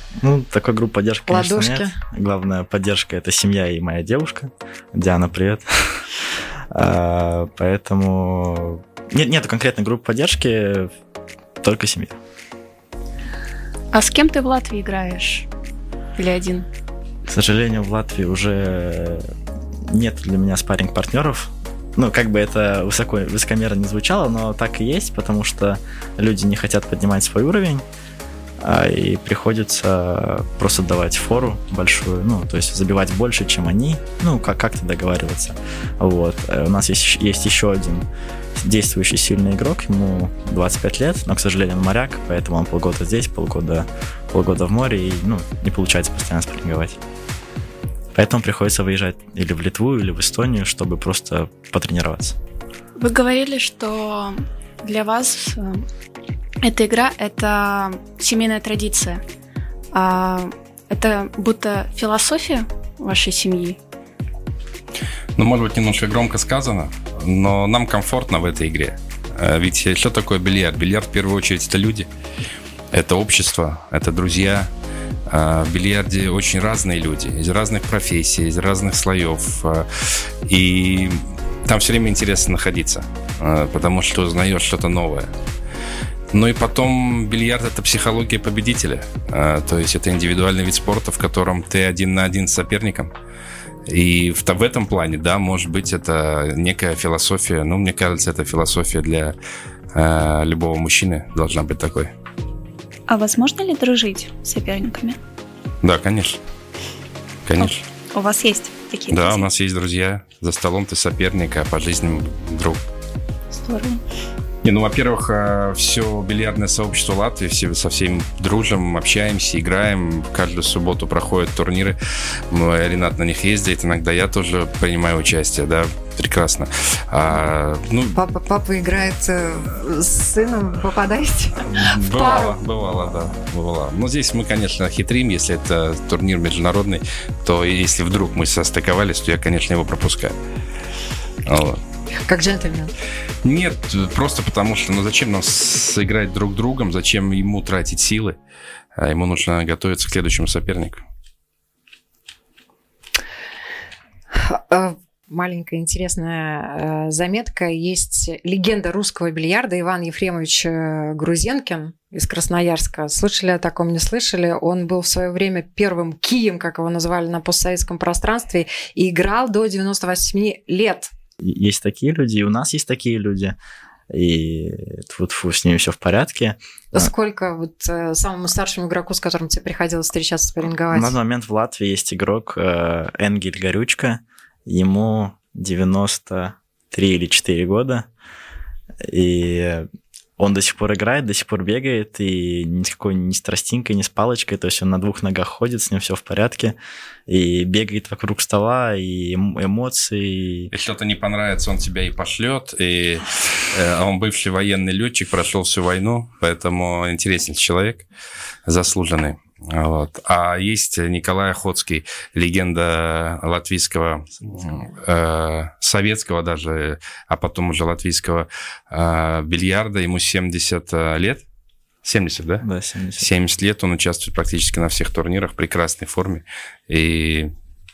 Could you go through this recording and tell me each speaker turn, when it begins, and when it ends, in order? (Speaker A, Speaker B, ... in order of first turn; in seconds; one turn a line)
Speaker A: 0.2-6.1
Speaker B: 1.3-2.0
Speaker A: 6.7-10.9
Speaker A: 11.6-12.2
Speaker C: 13.9-15.5
Speaker C: 16.2-16.7
Speaker A: 17.3-19.3
Speaker A: 19.9-27.9
Speaker A: 28.6-47.0
Speaker A: 48.1-52.4
Speaker C: 53.0-55.9
Speaker C: 56.6-59.2
Speaker C: 59.9-63.8
Speaker D: 65.4-72.1
Speaker D: 72.9-74.7
Speaker D: 75.3-85.3
Speaker D: 86.3-93.1
Speaker D: 93.9-99.3
Speaker D: 99.9-102.1
Speaker E: 103.1-105.2
Speaker D: 105.8-106.4
Speaker D: 107.5-107.8
Speaker E: 107.6-109.5
Speaker D: 109.1-112.8
Speaker E: 113.5-114.0
Speaker D: 114.6-122.0
Speaker D: 122.5-128.2
Speaker B: 128.2-132.6
Speaker D: 131.6-140.4
Speaker D: 141.5-141.8
Speaker B: 142.3-142.9
Speaker D: 143.4-148.4
Speaker D: 149.0-151.0
Speaker B: 154.3-171.1
Speaker A: 171.4-173.6
Speaker A: 174.1-177.1
Speaker B: 176.9-181.2
Speaker A: 180.9-188.1
Speaker A: 189.0-200.7
Speaker D: 200.7-208.1
Speaker D: 208.7-221.4
Speaker D: 222.0-222.7
Speaker A: 222.6-223.3
Speaker D: 223.2-227.5